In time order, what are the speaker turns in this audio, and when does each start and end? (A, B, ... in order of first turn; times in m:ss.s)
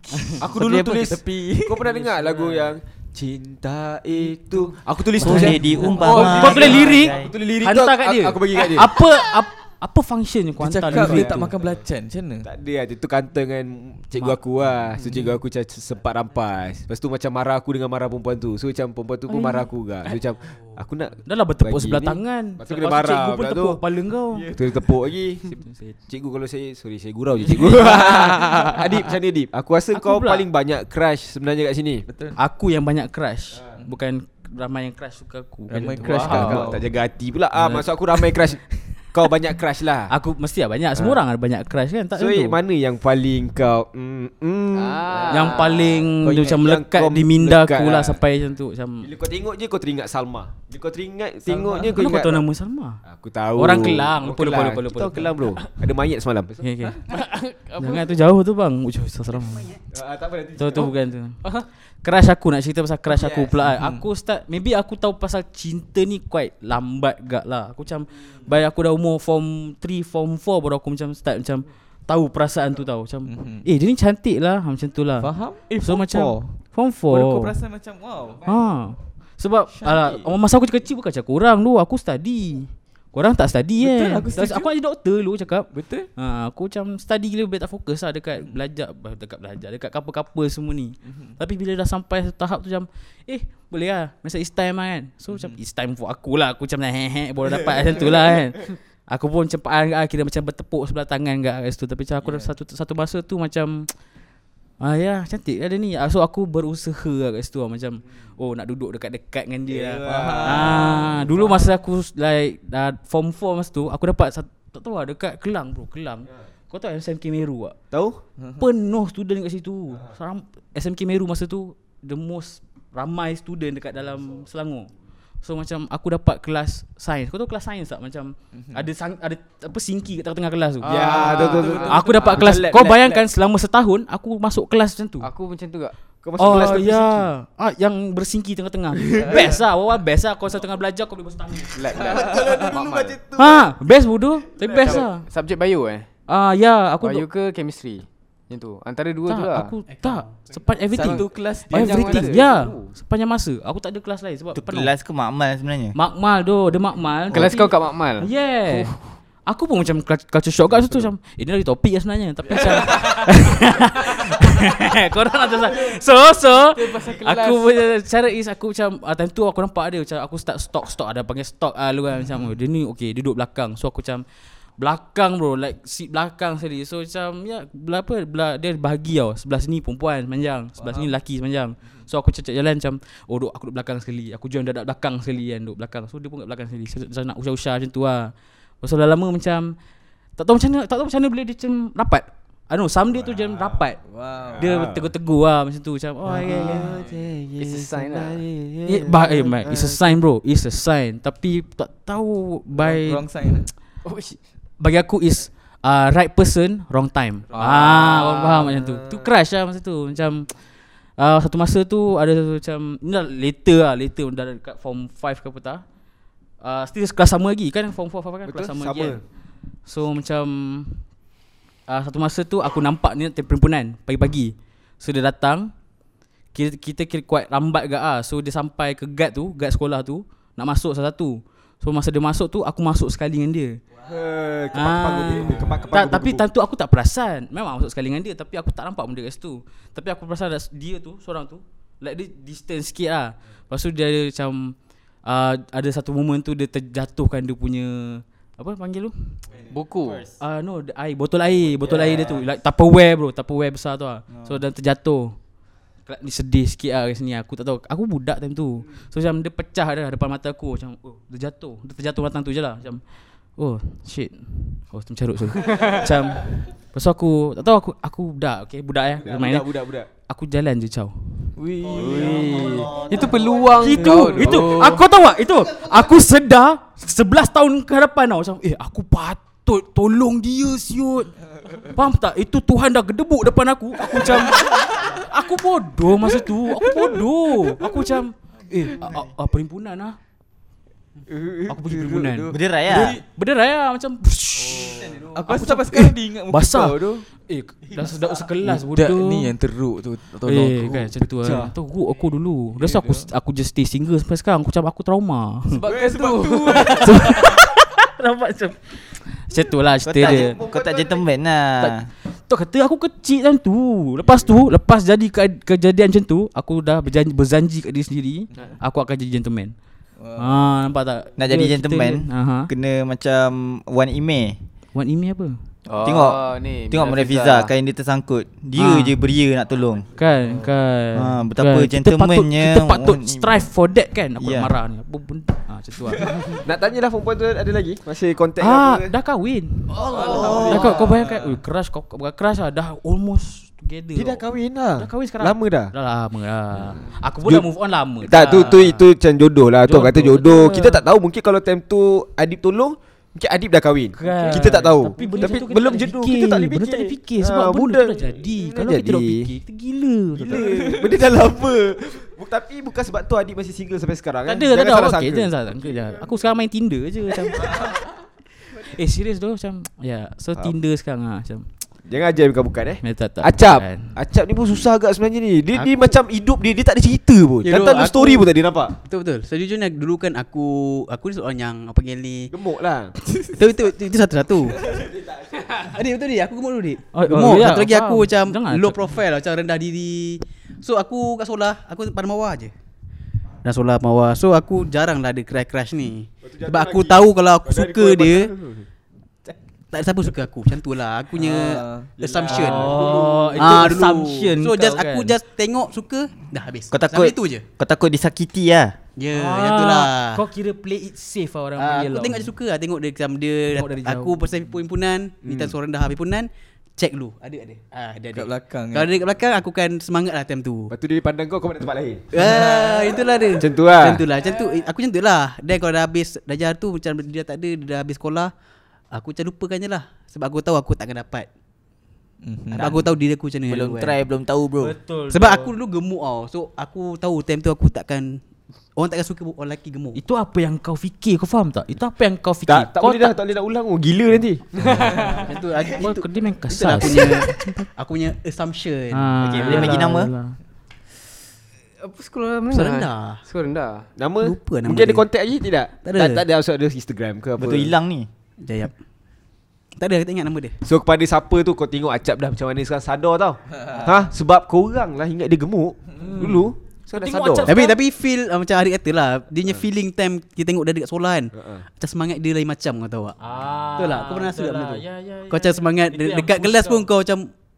0:00.2-0:00.4 A
0:00.4-0:09.0 B
0:00.4-0:02.0 C
0:01.9-0:02.5 D
0:05.2-0:07.3 E
0:05.2-0:11.5 A
0:05.5-0:06.2 C
0:06.0-0:06.6 D
0:10.6-0:12.5 C
0:10.9-0:11.8 B
0:12.4-0:23.8 B
0:19.3-0:19.7 A
0:21.2-0:24.6 A
0:24.5-0:32.0 B
0:25.6-0:26.0 A
0:27.4-0:29.0 C
0:27.6-0:29.0 A
0:29.9-0:30.4 A
0:32.1-0:32.4 C
0:32.4-0:36.7 A
0:35.7-0:36.8 C
0:36.0-0:36.6 D
0:36.0-0:40.1 B
0:37.6-0:37.8 A
0:40.1-0:42.6 A
0:42.2-0:48.2 B
0:44.7-0:46.0 D
0:45.3-0:49.1 A
0:49.0-0:52.4 B
0:51.5-0:53.0 A
0:53.0-0:56.7 B
0:53.5-0:55.6 A
0:56.6-0:57.0 A
0:57.1-0:58.2 D
0:57.8-0:59.8 A
0:59.9-1:00.9 B
1:00.5-1:01.4 A
1:02.0-1:17.6 A
1:03.1-1:03.6 B
1:03.7-1:04.0 C
1:13.3-1:13.6 C
1:15.2-1:16.5 C
1:17.1-1:18.4 C
1:18.4-1:43.9 A
1:19.7-1:20.2 C
1:23.8-1:24.7 C
1:25.7-1:26.1 C
1:31.0-1:31.4 C
1:35.3-1:35.6 C
1:42.2-1:42.5 C
1:44.8-1:57.8 A
1:49.7-1:51.6 B
1:50.0-1:51.3 C
1:57.9-1:58.2 B
1:58.4-1:58.7 C
1:58.6-2:04.9 A
2:05.4-2:15.3 A
2:08.5-2:08.9 C
2:10.8-2:12.7 D
2:10.9-2:13.2 B
2:15.2-2:15.9 D
2:16.2-2:17.3 B
2:16.4-2:22.1 A
2:19.2-2:19.6 C
2:21.7-2:23.2 D
2:21.8-2:23.7 B
2:22.1-2:22.5 C
2:23.3-2:25.2 A
2:24.6-2:25.0 B
2:24.8-2:26.1 D
2:26.3-2:27.2 A
2:27.0-2:29.7 D
2:29.3-2:34.9 A
2:29.9-2:30.6 F
2:30.9-2:32.3 C
2:31.0-2:32.9 D
2:34.5-2:36.0 E
2:35.9-2:54.2 A
2:37.3-2:38.9 D
2:42.5-2:43.2 D
2:46.7-2:47.7 D
2:54.8-3:09.8 A
3:00.8-3:01.1 C
3:10.4-3:14.0 A
3:13.2-3:13.8 B
3:14.1-3:14.7 C
3:14.5-3:15.1 B
3:14.6-3:17.0 A
3:16.2-3:20.1 B
3:16.8-3:17.2 C
3:17.6-3:18.4 D
3:18.8-3:23.2 A
3:22.8-3:23.7 C
3:24.0-3:24.4 D
3:24.8-3:30.6 A
3:27.5-3:28.5 D
3:27.6-3:29.2 B
3:31.2-3:35.8 A
3:36.6-3:39.2 A
3:38.4-3:39.2 B
3:39.8-3:41.0 A
3:41.9-3:45.7 A
3:46.5-3:53.8 A
3:54.0-3:56.4 B
3:54.7-4:09.4 A
4:09.7-4:10.2 D
4:10.0-4:10.4 E
4:10.4-4:15.3 A
4:14.3-4:14.6 E
4:16.0-4:23.0 A
4:23.6-4:29.7 A
4:25.7-4:26.0 D
4:29.2-4:30.1 B
4:30.3-4:31.5 A
4:31.6-4:32.9 C
4:31.8-4:33.9 E
4:31.9-4:35.0 D
4:33.8-4:48.3 A
4:44.2-4:45.0 C
4:46.2-4:47.2 C
4:48.9-4:50.2 A
4:51.3-4:52.3 B
4:51.7-4:59.5 A
4:52.4-4:53.2 C
4:52.5-4:53.2 E
4:54.8-4:55.4 F
4:55.0-4:57.2 C
4:58.6-5:01.1 C
5:00.4-5:05.8 A
5:01.4-5:01.7 B
5:02.8-5:03.3 C
5:05.7-5:07.4 D
5:05.8-5:07.3 C
5:06.8-5:10.6 A
5:10.0-5:12.1 E
5:10.2-5:11.3 B
5:11.8-5:19.7 A
5:20.2-5:20.7 C
5:20.3-5:22.7 A
5:21.4-5:24.6 E
5:24.9-5:25.6 A
5:25.8-5:27.7 D
5:26.0-5:30.1 E
5:28.8-5:29.2 A
5:30.1-5:36.6 A
5:31.1-5:33.7 E
5:34.4-5:34.7 E
5:36.6-5:39.1 B
5:38.6-5:44.4 A
5:40.0-5:41.6 C
5:40.2-5:40.9 E
5:44.1-5:45.9 B
5:45.0-5:49.0 A
5:48.2-5:59.5 B
5:49.8-5:51.0 A
5:54.1-6:01.2 A
6:00.3-6:06.0 B
6:00.6-6:01.1 C
6:04.4-6:08.1 A
6:08.7-6:11.7 A
6:12.1-6:18.9 B
6:13.0-6:14.2 A
6:15.7-6:16.2 A
6:17.6-6:22.5 F
6:22.5-6:23.2 B
6:23.4-6:24.8 F
6:25.7-6:32.7 F
6:27.1-6:29.2 A
6:33.6-6:38.5 F
6:36.4-6:38.9 B
6:39.9-6:47.6 F
6:41.3-6:42.1 C
6:42.2-6:43.9 B
6:42.5-6:45.4 A
6:46.9-6:49.0 E
6:49.2-6:50.4 F
6:49.3-6:52.5 A
6:51.8-7:00.9 F
6:53.7-6:54.4 A
6:55.4-6:55.8 B
6:58.3-6:59.2 C
7:00.9-7:02.3 B
7:02.3-7:08.5 F
7:02.4-7:03.4 C
7:03.6-7:04.3 B
7:09.1-7:11.5 F
7:12.4-7:13.1 C
7:12.7-7:14.2 F
7:13.7-7:15.0 E
7:14.8-7:15.8 A
7:15.3-7:18.4 F
7:19.0-7:20.2 F
7:20.1-7:23.4 A
7:22.7-7:25.2 B
7:25.0-7:27.9 A
7:25.2-7:30.0 F
7:29.1-7:30.6 A
7:29.4-7:30.3 E
7:32.0-7:34.1 D
7:32.7-7:33.4 F
7:34.2-7:37.9 B
7:34.4-7:35.2 F
7:36.0-7:36.4 F
7:37.6-7:38.3 E
7:38.6-7:38.9 F
7:40.0-7:40.8 F
7:40.8-7:47.7 B
7:46.2-7:48.0 A
7:47.7-7:53.4 F
7:51.6-7:51.8 B
7:53.4-7:57.1 A
7:54.0-7:57.5 F